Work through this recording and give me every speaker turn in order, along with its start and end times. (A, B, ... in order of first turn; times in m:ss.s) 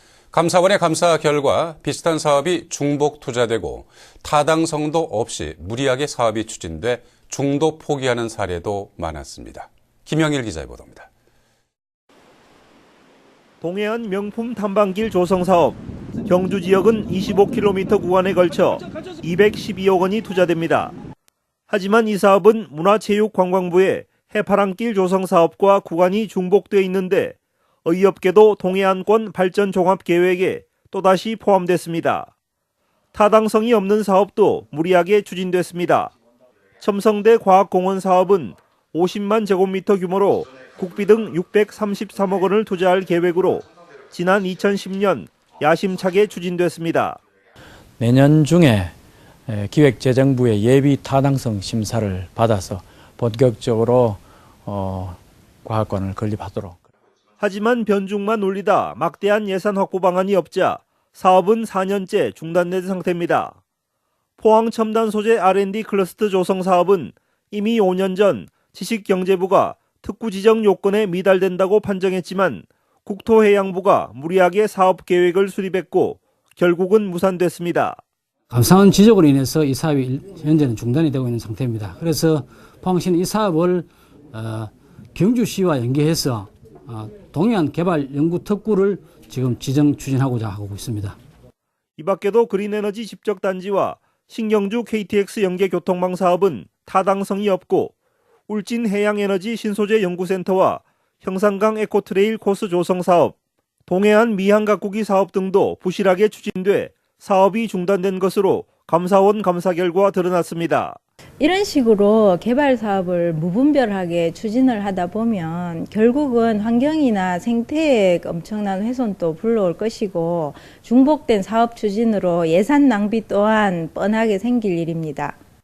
0:00.3-0:11.1 A
0:13.6-0:20.9 B
0:21.7-0:32.3 B
0:33.1-0:36.1 B
0:36.8-0:47.2 B
0:48.0-0:48.9 C
0:49.5-0:56.8 C
0:57.4-1:03.6 B
1:04.4-1:18.0 B
1:18.5-1:31.2 D
1:32.0-1:37.9 B
1:38.5-1:43.3 B
1:43.9-1:51.0 B
1:51.4-2:05.4 E